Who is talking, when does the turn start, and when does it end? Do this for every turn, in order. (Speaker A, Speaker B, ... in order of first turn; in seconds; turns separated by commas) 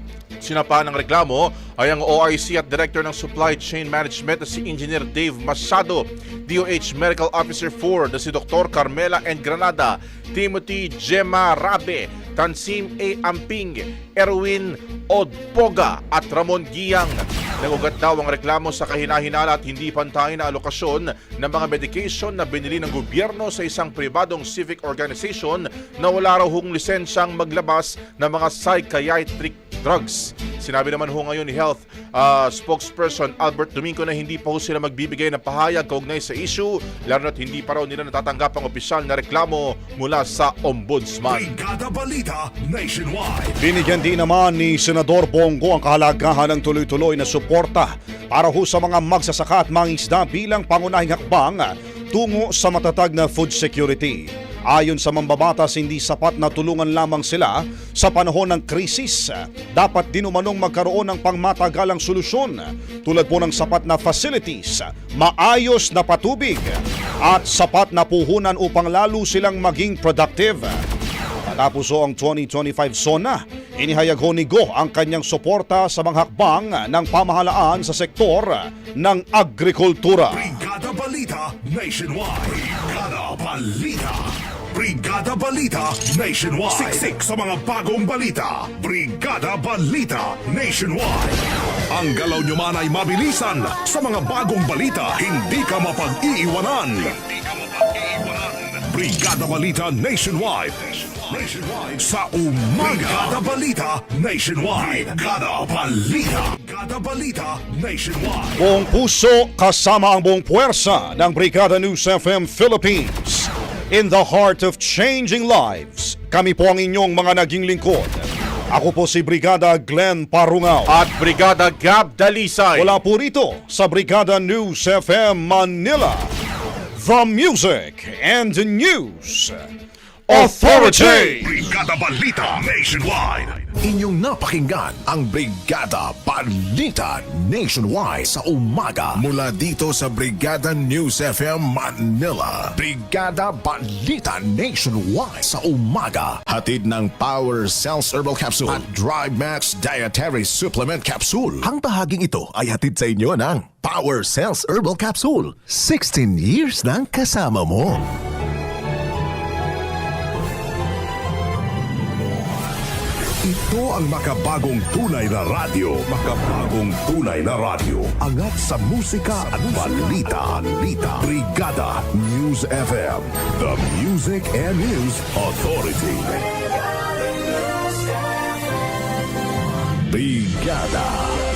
Speaker A: 0.4-41.5, Speaker B: 41.3-43.6, Speaker C: 43.6-70.8, Speaker C: 71.5-80.6, Speaker B: 80.3-108.6, Speaker C: 108.6-121.0, Speaker A: 120.9-122.9, Speaker C: 122.8-126.3, Speaker C: 127.0-129.6, Speaker A: 130.3-131.5, Speaker C: 130.3-131.5, Speaker B: 131.4-133.6, Speaker D: 133.8-158.1, Speaker B: 163.4-168.2, Speaker D: 168.2-171.3, Speaker B: 169.2-170.7, Speaker B: 171.2-176.3, Speaker D: 172.5-173.1, Speaker D: 180.0-181.4